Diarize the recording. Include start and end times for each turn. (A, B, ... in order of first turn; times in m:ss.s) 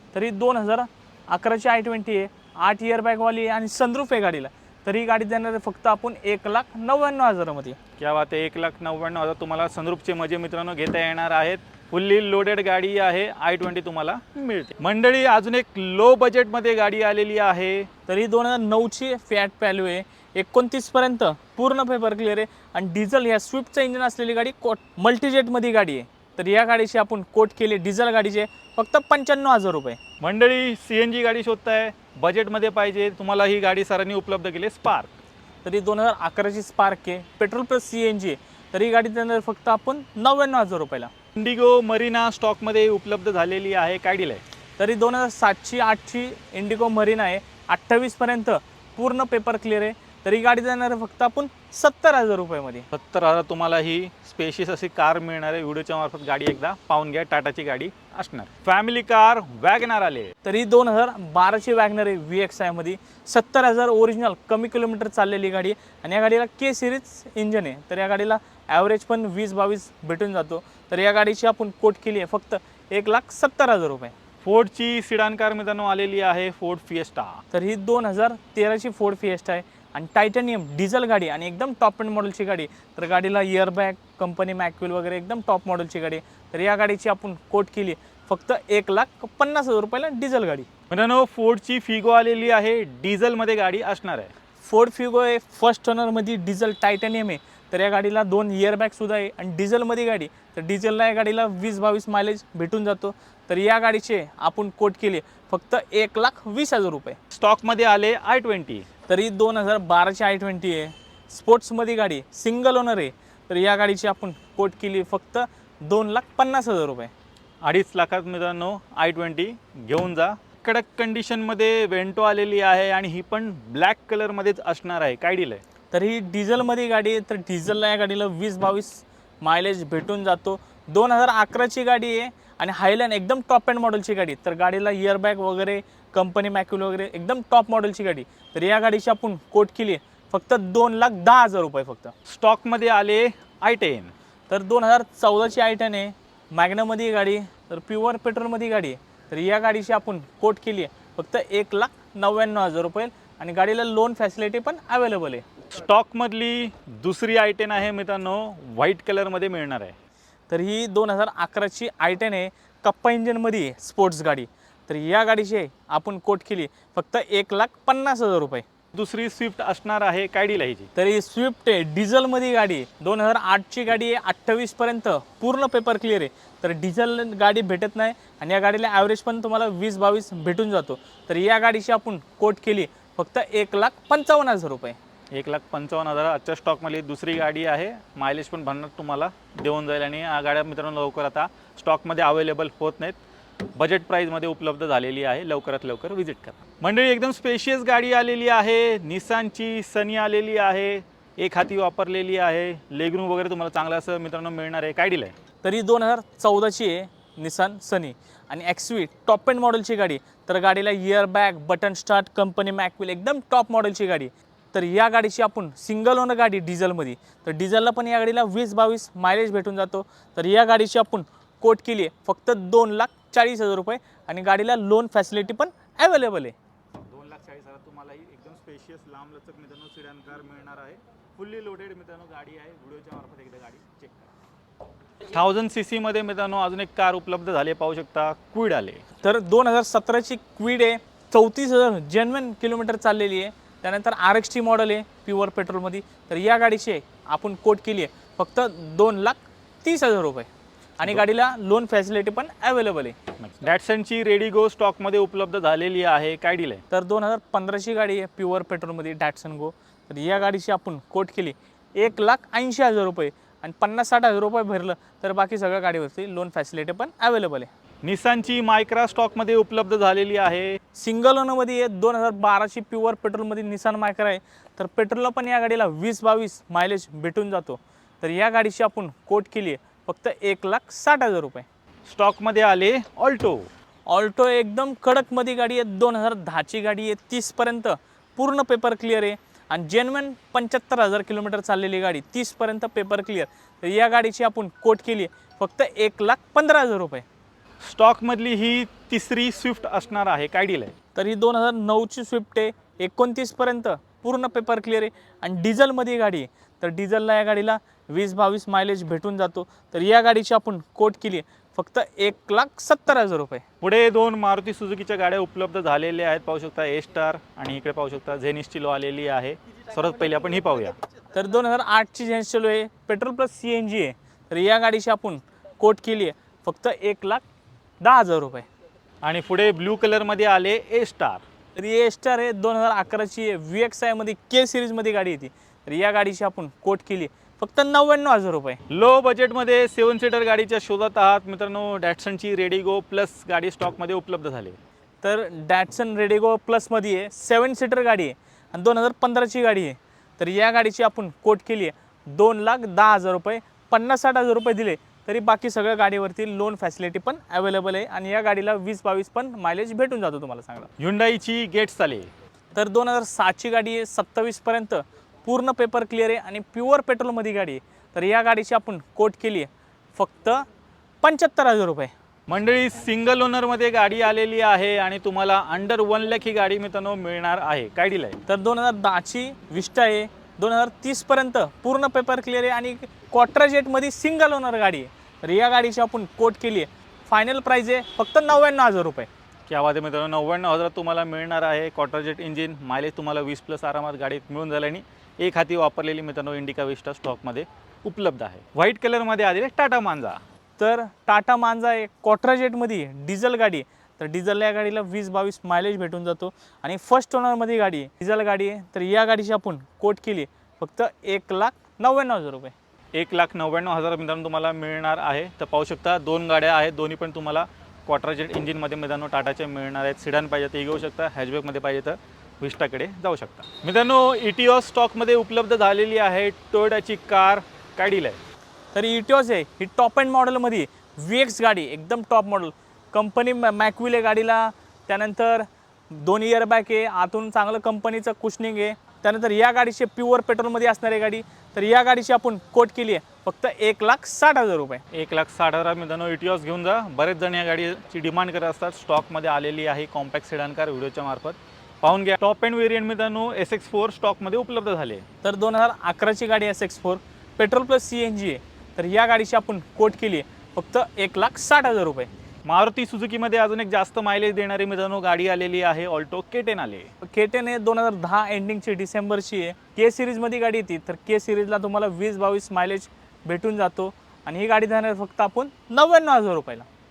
0:00.1-0:07.8 A
0:08.0-0:17.9 B
0:18.1-0:30.0 A
0:30.2-0:35.1 B
0:35.6-0:41.1 A
0:41.4-0:44.4 B
0:44.8-0:52.9 A
0:52.9-1:00.3 B
1:00.4-1:14.1 A
1:14.4-1:17.4 B
1:17.5-1:30.7 A
1:30.9-1:34.3 B
1:34.6-1:47.2 A
1:47.3-1:48.9 B
1:49.1-1:57.1 A
1:57.6-2:05.6 B
2:05.9-2:22.1 A
2:22.3-2:24.1 B
2:24.5-2:35.5 A
2:35.7-2:39.9 B
2:40.5-2:48.6 A
2:48.9-2:50.9 B
2:51.0-3:05.0 A
3:05.3-3:13.2 B
3:13.8-3:25.3 B
3:25.6-3:46.6 A
3:47.0-3:54.3 B
3:55.3-3:59.0 B
3:59.2-4:10.5 A
4:11.0-4:13.2 A
4:13.4-4:16.8 B
4:16.9-4:27.7 A
4:28.0-4:30.8 B
4:31.0-4:41.7 A
4:42.1-4:43.7 B
4:44.1-4:57.2 A
4:57.8-5:00.9 B
5:01.2-5:13.6 A
5:13.8-5:21.0 B
5:21.3-5:27.4 A
5:28.0-5:28.7 A
5:29.2-5:31.4 B
5:31.8-5:38.8 A
5:38.9-5:44.8 B
5:45.2-6:00.9 A
6:01.0-6:02.3 B
6:02.7-6:10.7 A
6:11.2-6:12.1 A
6:12.5-6:18.4 B
6:18.5-6:29.3 A
6:29.7-6:40.4 B
6:40.8-6:52.7 A
6:53.1-7:08.4 B
7:08.9-7:25.0 A
7:25.1-7:35.2 B
7:35.4-7:42.3 A
7:42.7-7:47.1 B
7:47.2-7:56.9 A